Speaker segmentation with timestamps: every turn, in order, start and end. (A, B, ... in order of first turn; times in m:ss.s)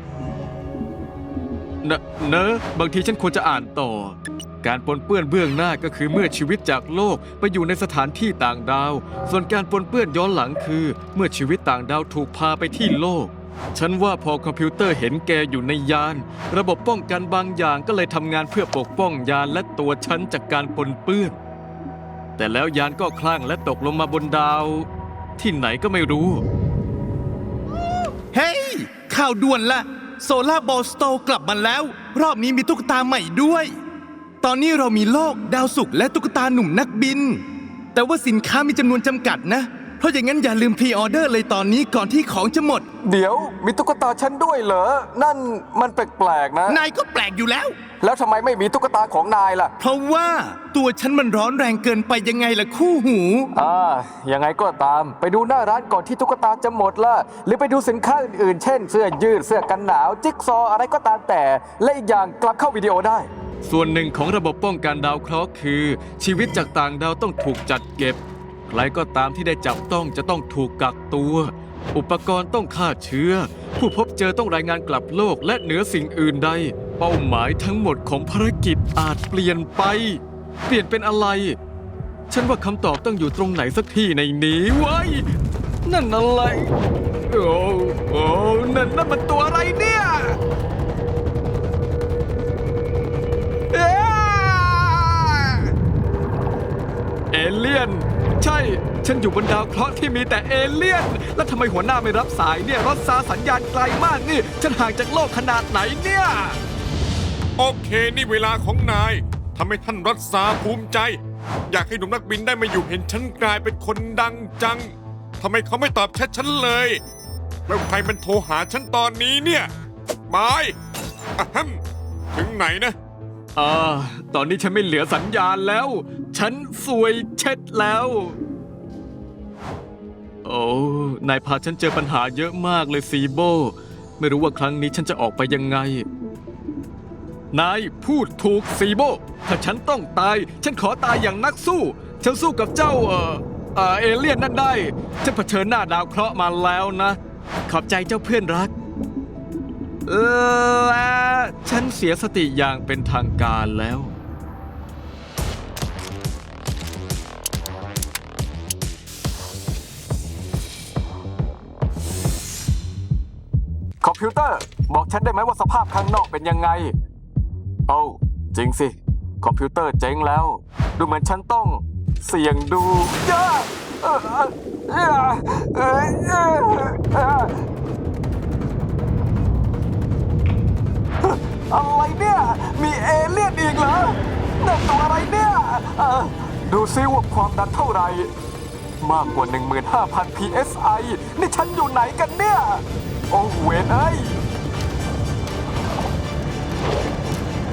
0:01.8-0:04.1 A
0:04.6-0:21.4 A
0:14.1-0:14.5 B
0:18.2-0:19.0 B
0:22.4-0:24.8 A
0:25.4-0:26.4 A
0:28.3-0:33.7 C
0:34.4-0:37.4 C
0:37.9-0:42.9 C
0:43.1-0:46.5 B
0:43.4-0:46.7 A
0:46.7-0:47.8 C
0:48.0-0:49.7 A
0:48.2-0:48.6 B
0:49.8-0:53.5 C
0:53.7-0:54.3 B
0:53.8-1:08.2 A
1:08.7-1:20.2 A
1:13.6-1:14.1 B
1:18.5-1:19.3 B
1:20.7-1:21.6 A
1:22.3-1:25.2 A
1:25.9-1:26.6 A
1:27.3-1:30.2 A
1:33.7-1:34.7 A
1:37.3-1:46.3 A
1:47.6-1:51.2 D
1:51.7-1:57.0 D
1:57.7-1:59.7 D
2:00.3-2:00.7 D
2:01.4-2:01.8 D
2:02.3-2:02.9 D
2:03.6-2:08.3 B
2:04.3-2:07.9 A
2:10.5-2:13.7 A
2:10.6-2:12.3 B
2:14.2-2:16.0 A
2:14.4-2:15.3 B
2:17.5-2:27.2 A
2:18.6-2:19.8 B
2:20.4-2:21.3 B
2:27.7-2:28.7 A
2:30.1-2:34.0 A
2:33.2-2:33.8 B
2:44.0-2:46.9 A
2:44.6-2:46.8 B
2:47.9-2:48.9 A
2:49.4-2:50.3 A
2:49.6-2:50.4 B
2:51.0-2:51.8 A
2:51.2-2:51.8 B
2:52.3-2:53.3 B
2:52.7-2:53.4 A
2:54.0-2:55.1 A
2:55.8-2:56.6 A
2:56.5-2:57.4 B
3:01.8-3:04.0 B
3:01.8-3:03.8 A
3:04.6-3:08.2 B
3:04.9-3:05.5 A
3:07.0-3:07.5 A
3:09.0-3:12.8 B
3:09.6-3:10.2 A
3:13.3-3:14.3 B